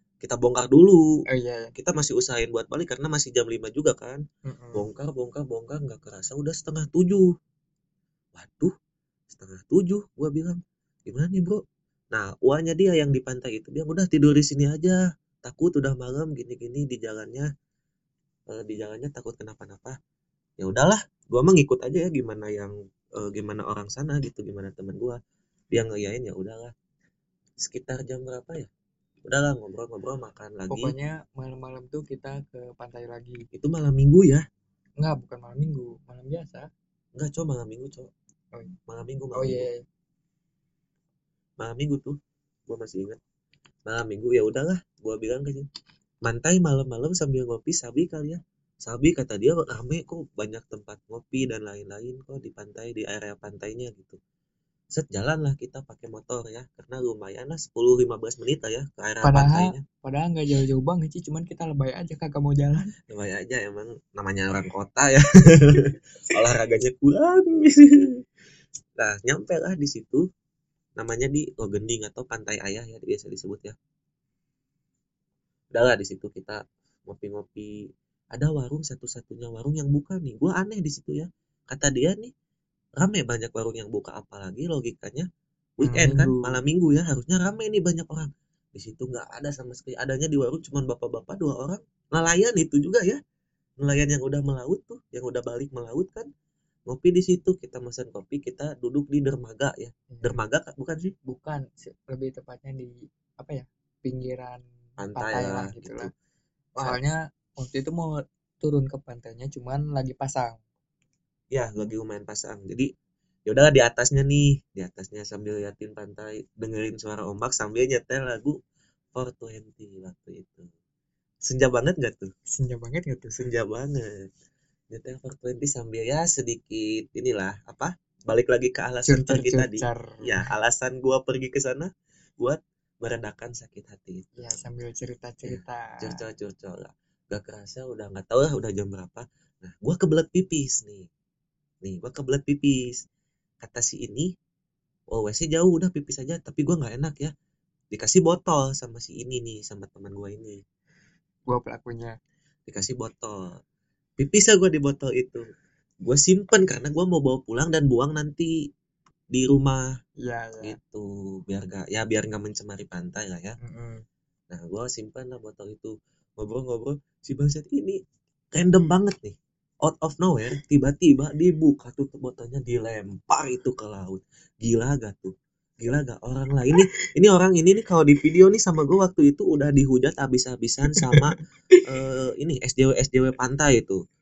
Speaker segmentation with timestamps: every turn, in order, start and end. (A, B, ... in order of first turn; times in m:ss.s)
0:00.2-0:01.0 A
0:01.3-0:01.7 B
0:01.8-0:04.2 A
0:04.5-0:04.9 B
0:04.7-0:07.3 A
0:08.3-0:08.7 A
0:09.3-0:11.6 A
0:12.1-0:17.5 A
0:18.5-0:20.0 A
0:20.6-0:25.2 A
0:25.7-0:26.7 A
0:27.6-0:28.7 A
0:29.2-0:30.9 A
0:30.7-0:33.4 B
0:33.5-0:34.4 A
0:35.0-0:36.7 B
0:37.2-0:38.1 A
0:38.9-0:39.6 A
0:39.3-0:39.8 B
0:41.6-0:42.2 A
0:42.7-0:43.2 A
0:43.9-0:45.6 A
0:46.2-0:54.2 A
0:54.9-0:59.8 A
0:59.2-1:02.9 B
1:03.1-1:08.1 A
1:09.0-1:10.2 A
1:11.0-1:13.8 A
1:15.7-1:17.7 A
1:18.3-1:22.3 A
1:23.0-1:25.3 A
1:25.8-1:33.2 A
1:25.8-1:26.6 B
1:33.8-1:36.3 A
1:36.9-1:41.1 A
1:40.1-1:40.4 B
1:41.2-1:44.6 B
1:45.0-1:46.1 A
1:45.1-1:46.1 B
1:46.8-1:50.6 B
1:51.5-1:52.9 A
1:53.5-1:58.6 A
1:59.1-2:00.7 A
2:01.4-2:02.3 A
2:02.5-2:03.5 B
2:03.4-2:04.3 A
2:04.9-2:14.6 A
2:09.0-2:10.5 B
2:14.4-2:16.2 B
2:15.4-2:21.1 A
2:21.8-2:23.0 A
2:23.6-2:24.3 A
2:25.1-2:27.3 A
2:27.9-2:30.6 A
2:31.5-2:32.2 B
2:32.7-2:33.5 A
2:34.2-2:35.4 A
2:36.0-2:38.5 A
2:39.3-2:39.8 A
2:40.2-2:40.8 B
2:40.6-2:43.6 A
2:43.6-2:44.0 B
2:44.5-2:48.0 A
2:48.5-3:01.4 A
3:00.9-3:01.2 B
3:01.9-3:04.0 A